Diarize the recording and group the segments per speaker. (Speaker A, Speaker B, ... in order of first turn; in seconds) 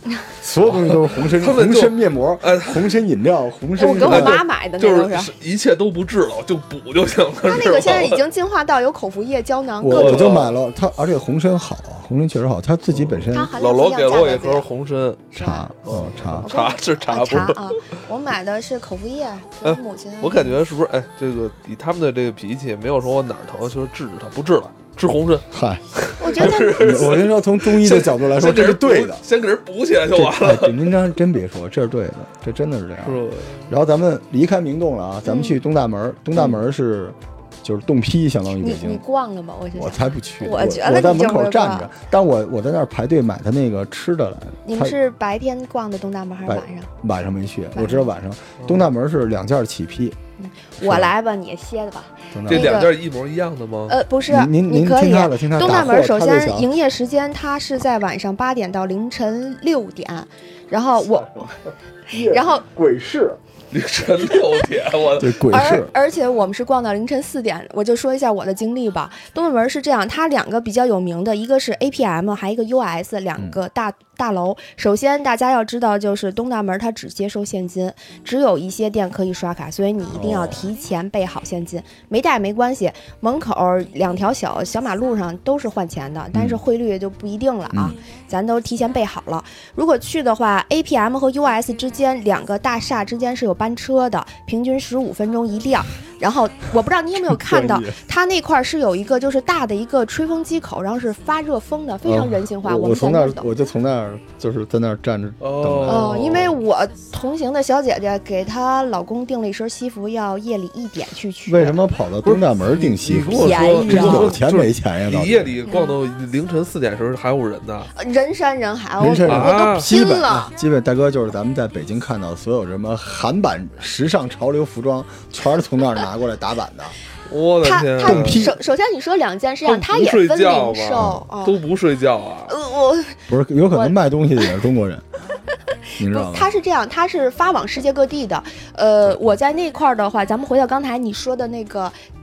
Speaker A: 0.3-4.4, 9.8-13.5, 15.3-16.5, 25.5-25.8, 26.3-29.2, 30.1-39.0, 39.7-45.0, 46.5-50.2, 50.8-51.1, 52.3-52.8, 54.3-56.7, 62.1-63.4, 65.2-65.9, 80.1-80.7, 86.3-86.6, 87.7-88.0, 97.2-98.0, 102.0-106.2, 111.5-115.6, 119.0-127.0, 128.0-128.6, 131.0-131.3, 133.3-135.1, 136.0-136.5
Speaker B: 0.6-3.0, 4.0-8.2, 9.9-10.6, 12.9-15.3, 15.8-17.8, 19.6-30.9, 33.0-33.7, 48.6-48.9, 52.5-54.0, 63.7-65.4, 105.4-106.6, 112.2-117.9, 119.3-119.9, 127.3-128.5, 129.7-132.6
Speaker C: 3.8-5.3, 7.4-10.4, 13.3-14.7, 15.3-15.7, 16.4-20.6, 26.2-27.1, 35.2-35.6, 38.6-41.9, 44.6-46.9, 47.7-48.1, 50.4-53.0, 53.9-61.5, 62.1-62.6, 64.3-64.7, 65.3-103.5, 105.8-111.8, 113.3-114.4, 115.7-116.0, 117.9-120.5, 127.6-131.6, 132.5-134.5, 136.0-141.9